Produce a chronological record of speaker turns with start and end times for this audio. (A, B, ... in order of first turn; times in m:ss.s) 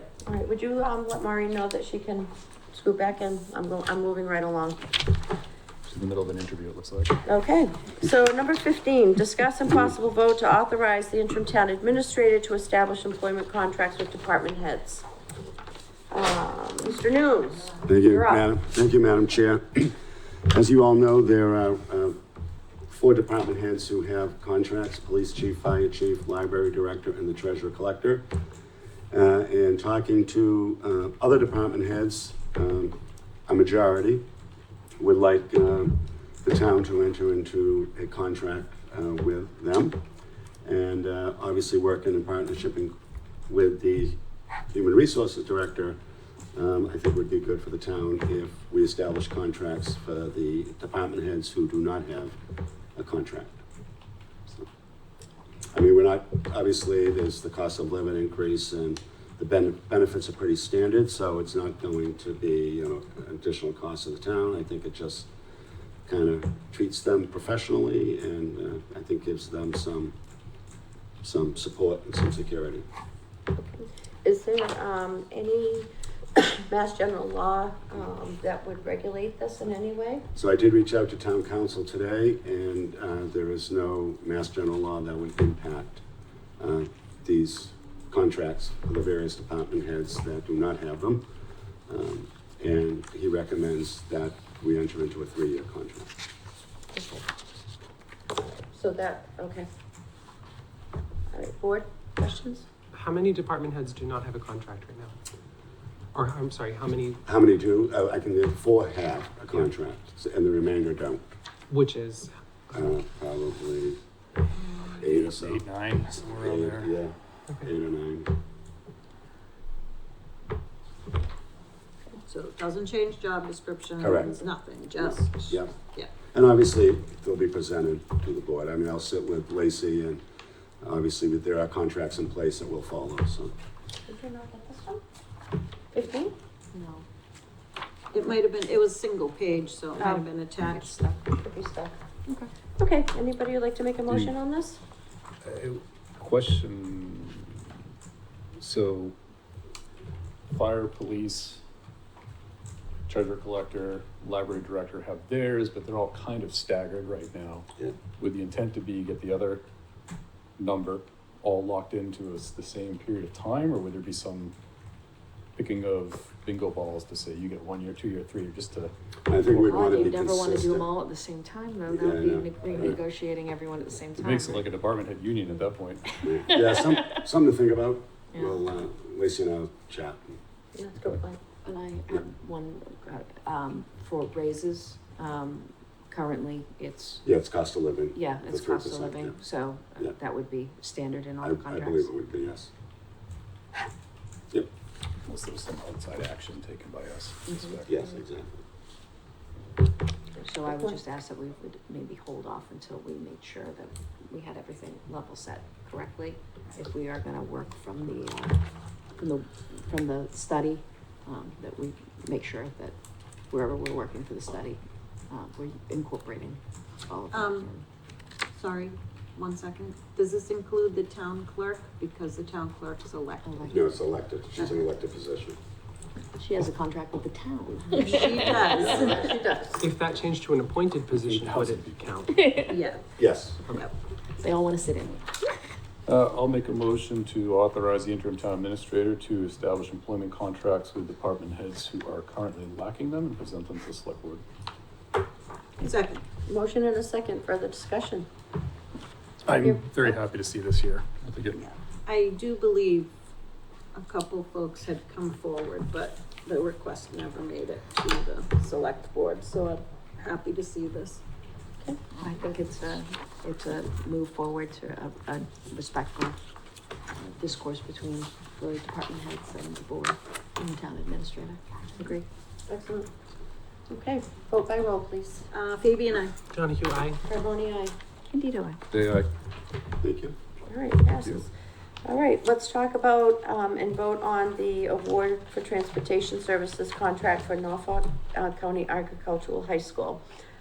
0:00.2-0:05.0 A
0:05.9-0:07.2 B
0:07.2-0:15.0 A
0:16.1-0:18.4 A
0:17.8-0:19.9 C
0:20.5-0:22.2 C
0:22.9-0:28.2 C
0:29.1-0:32.9 C
0:33.5-0:34.2 C
0:35.0-0:40.0 C
0:40.6-0:42.9 C
0:43.5-0:44.2 C
0:44.7-0:46.0 C
0:46.5-0:52.4 C
0:53.0-0:53.6 C
0:55.7-1:05.3 C
1:06.1-1:10.1 C
1:11.2-1:12.8 C
1:13.5-1:20.2 A
1:20.3-1:26.0 C
1:26.6-1:31.3 C
1:31.9-1:36.1 C
1:36.9-1:37.2 A
1:38.7-1:39.7 A
1:41.3-1:42.6 A
1:42.9-1:45.1 D
1:46.1-1:47.2 D
1:47.2-1:51.2 C
1:51.7-1:53.0 D
1:52.7-1:54.0 C
1:55.0-1:56.9 B
1:55.0-1:55.6 C
1:56.4-1:58.3 C
2:02.3-2:06.1 E
2:04.0-2:04.4 C
2:05.4-2:05.8 C
2:06.3-2:10.2 C
2:10.8-2:13.5 C
2:14.1-2:15.0 A
2:15.9-2:16.3 A
2:16.7-2:17.0 F
2:18.1-2:20.9 E
2:19.9-2:22.0 A
2:22.8-2:24.8 A
2:25.4-2:27.6 B
2:28.6-2:29.1 B
2:30.5-2:31.6 B
2:33.1-2:37.7 B
2:38.2-2:39.6 B
2:40.6-2:44.6 B
2:45.6-2:48.9 B
2:49.3-2:50.9 C
2:49.7-2:54.7 F
2:51.9-2:53.0 C
2:54.2-2:56.2 B
2:56.2-3:00.3 C
2:58.3-2:58.7 F
3:00.7-3:01.4 A
3:01.6-3:07.2 F
3:07.2-3:09.4 C
3:08.1-3:12.1 F
3:11.4-3:12.7 C
3:15.2-3:17.9 B
3:17.5-3:17.8 F
3:17.8-3:18.6 C
3:20.4-3:21.0 A
3:20.4-3:28.6 F
3:29.2-3:33.0 F
3:33.5-3:37.8 F
3:37.3-3:37.7 E
3:38.5-3:43.7 E
3:43.4-3:43.9 F
3:43.6-3:45.6 C
3:46.4-3:49.1 F
3:47.9-3:49.4 E
3:48.6-3:49.2 C
3:48.8-3:49.8 A
3:49.8-3:52.7 D
3:51.2-3:52.2 B
3:52.7-3:53.0 E
3:53.2-3:53.6 C
3:54.4-3:55.3 F
3:56.1-4:04.4 B
4:05.8-4:06.2 E
4:06.4-4:08.2 A
4:09.4-4:11.6 B
4:09.5-4:10.2 A
4:11.5-4:13.1 E
4:13.9-4:21.2 E
4:22.2-4:26.4 F
4:27.2-4:32.2 F
4:32.7-4:33.1 A
4:33.9-4:35.5 A
4:35.5-4:36.4 E
4:36.5-4:37.2 D
4:37.3-4:37.9 A
4:38.3-4:38.8 F
4:38.9-4:39.2 B
4:40.0-4:40.3 C
4:40.7-4:41.5 A
4:42.0-4:50.2 A